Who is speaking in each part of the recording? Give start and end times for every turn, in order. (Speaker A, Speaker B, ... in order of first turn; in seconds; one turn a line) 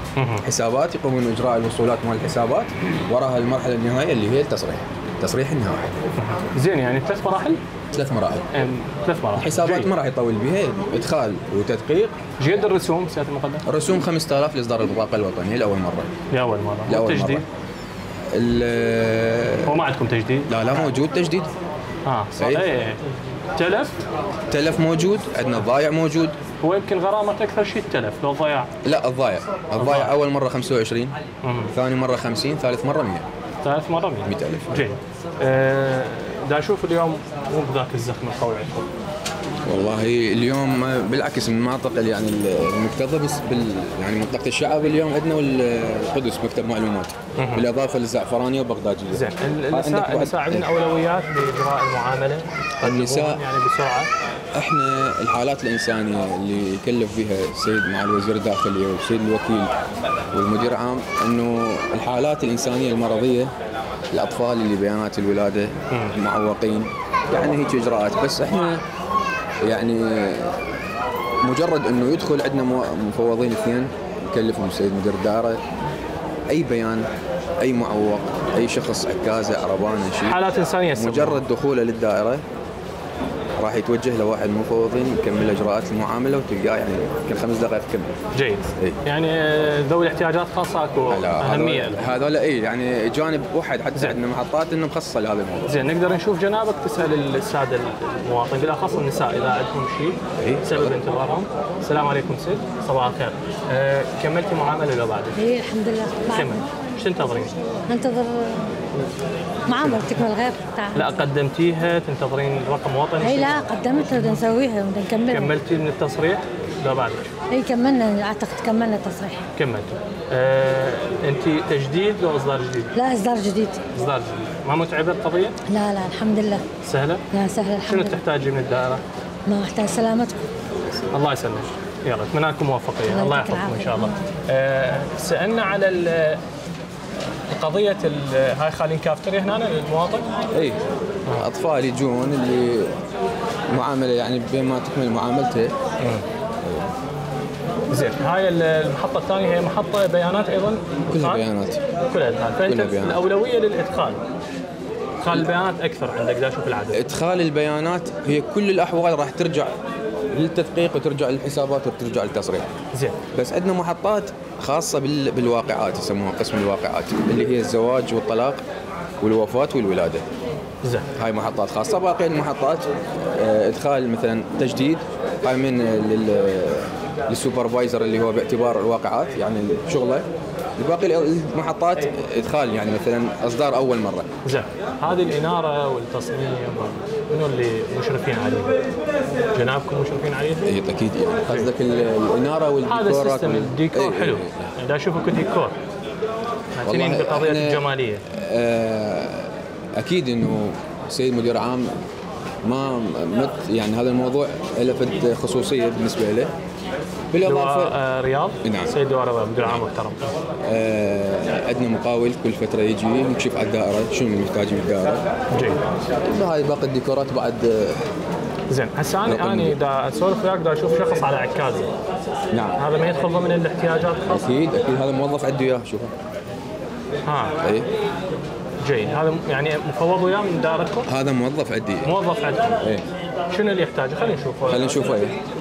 Speaker A: 0.2-0.4
Speaker B: 0.4-6.0
Speaker A: 6.2-7.6
Speaker B: 7.9-8.4
Speaker A: 8.5-9.9
Speaker B: 9.3-12.2
Speaker A: 12.4-13.6
Speaker B: 13.7-16.1
Speaker A: 16.3-17.4
Speaker B: 16.9-17.4
Speaker B: 18.3-19.7
Speaker A: 19.6-20.9
Speaker B: 20.5-21.5
Speaker A: 22.1-23.0
Speaker B: 22.4-22.6
Speaker A: 23.5-23.9
Speaker B: 24.5-26.4
Speaker A: 26.6-28.7
Speaker B: 28.8-31.1
Speaker A: 29.8-30.1
Speaker A: 31.4-31.7
Speaker B: 31.7-33.3
Speaker A: 33.6-38.9
Speaker B: 34.2-34.7
Speaker B: 39.6-50.6
Speaker A: 47.4-47.6
Speaker A: 49.1-54.1
Speaker B: 52.8-53.4
Speaker B: 54.5-59.7
Speaker B: 60.3-63.5
Speaker B: 64.1-68.8
Speaker B: 69.6-70.5
Speaker B: 71.4-75.6
Speaker B: 76.5-77.1
Speaker B: 77.6-82.4
Speaker A: 80.3-81.4
Speaker B: 83.6-88.2
Speaker A: 88.3-92.0
Speaker B: 91.1-95.8
Speaker A: 95.7-105.3
Speaker B: 100.4-101.0
Speaker C: 105.3-106.8
Speaker A: 106.3-107.5
Speaker C: 107.9-108.7
Speaker C: 109.7-111.2
Speaker A: 109.7-110.0
Speaker A: 111.0-113.7
Speaker C: 113.2-115.5
Speaker A: 115.3-117.3
Speaker C: 117.5-119.4
Speaker A: 119.6-122.9
Speaker C: 122.9-123.8
Speaker A: 123.9-125.6
Speaker C: 125.7-126.6
Speaker A: 126.8-127.2
Speaker C: 127.3-128.2
Speaker A: 127.8-129.0
Speaker C: 129.5-130.4
Speaker A: 131.1-136.4
Speaker C: 133.1-134.2
Speaker A: 137.5-140.3
Speaker B: 140.5-140.8
Speaker B: 141.3-142.9
Speaker B: 143.7-145.7
Speaker A: 146.0-146.2
Speaker B: 146.6-146.9
Speaker A: 147.9-151.4
Speaker B: 151.1-151.8
Speaker A: 152.1-154.2
Speaker B: 152.6-153.2
Speaker A: 155.2-157.0
Speaker B: 156.9-159.8
Speaker B: 160.3-162.7
Speaker A: 162.9-163.2
Speaker B: 163.3-168.6
Speaker B: 169.2-170.2
Speaker A: 170.8-171.1
Speaker B: 171.2-180.3
Speaker B: 180.8-184.3
Speaker A: 184.4-188.8
Speaker A: 189.5-190.7
Speaker B: 190.6-194.7
Speaker A: 192.8-195.8
Speaker A: 196.8-198.2
Speaker B: 196.8-201.9
Speaker B: 202.6-206.5
Speaker B: 207.3-207.9
Speaker A: 207.4-210.3
Speaker B: 208.6-208.9
Speaker B: 210.6-215.2
Speaker A: 215.5-215.8
Speaker B: 216.2-218.0
Speaker A: 218.7-221.9
Speaker B: 219.2-219.7
Speaker B: 222.5-222.8
Speaker A: 222.8-224.5
Speaker B: 224.3-226.1
Speaker A: 227.2-227.5
Speaker B: 227.6-227.9
Speaker A: 228.8-231.1
Speaker B: 231.1-232.1
Speaker A: 232.0-232.8
Speaker A: 233.5-235.1
Speaker B: 234.7-235.3